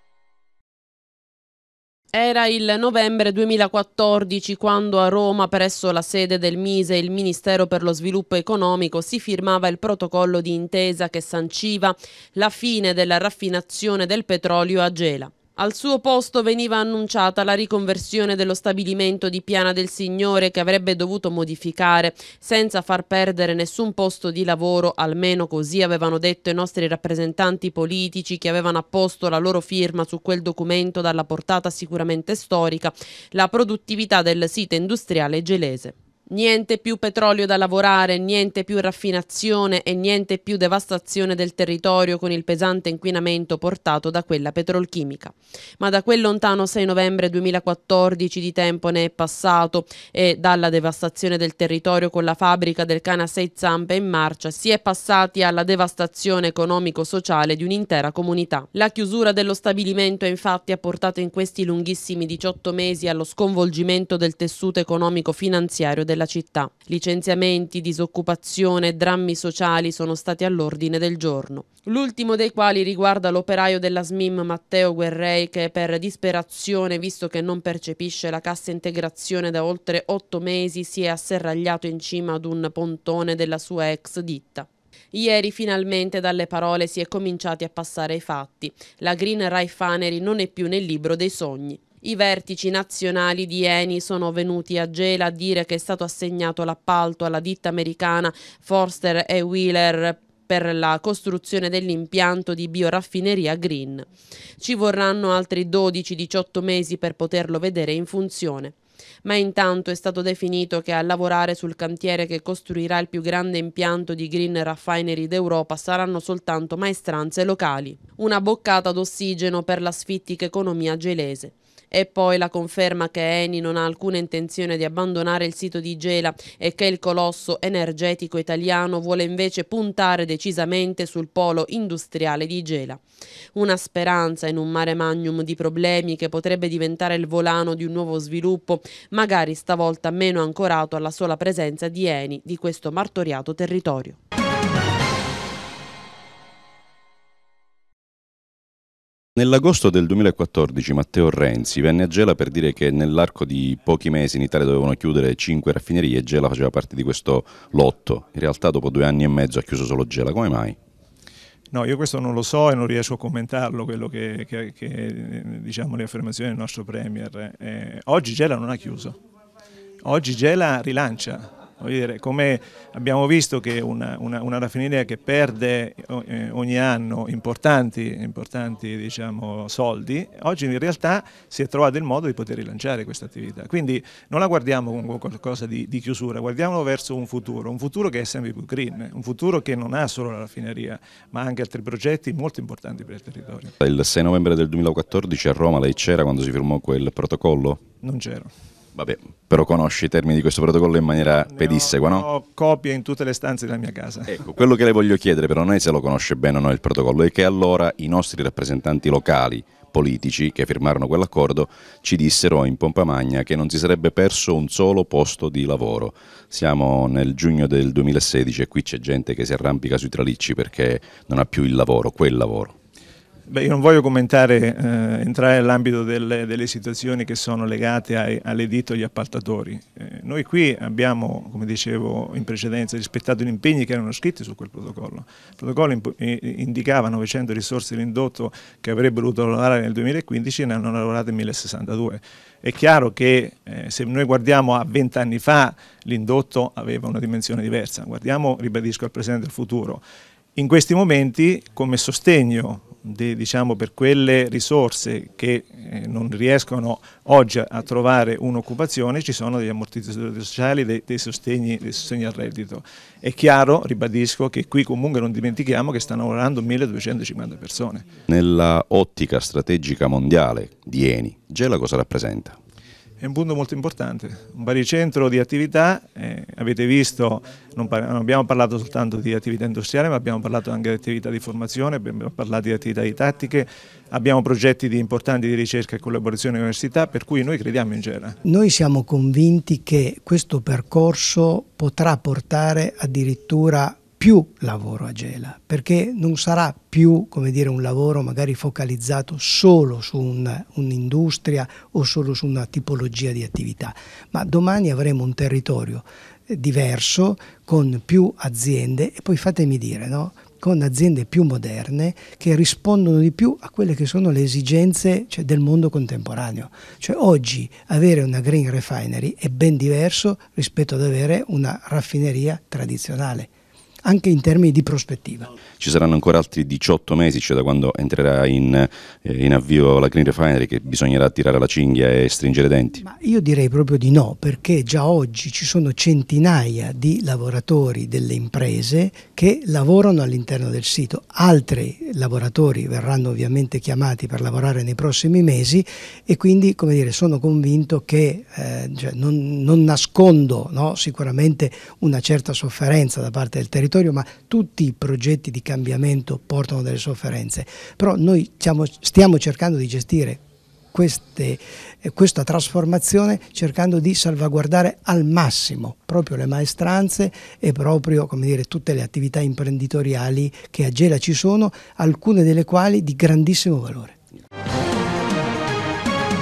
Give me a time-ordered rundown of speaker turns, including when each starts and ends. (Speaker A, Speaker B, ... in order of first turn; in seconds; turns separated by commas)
Speaker A: 2.1-104.1, Speaker A: 104.6-133.0, Speaker A: 133.5-144.2, Speaker B: 149.4-160.8, Speaker C: 161.7-169.2, Speaker C: 170.0-193.7, Speaker B: 193.8-197.8, Speaker C: 198.0-198.5, Speaker B: 198.9-202.3, Speaker C: 201.4-204.4, Speaker B: 204.3-222.8, Speaker C: 223.5-250.0, Speaker C: 250.6-268.1, Speaker B: 268.3-272.6, Speaker C: 273.2-288.4, Speaker D: 288.4-323.5, Speaker D: 324.0-325.5, Speaker B: 325.8-333.0, Speaker D: 333.0-374.2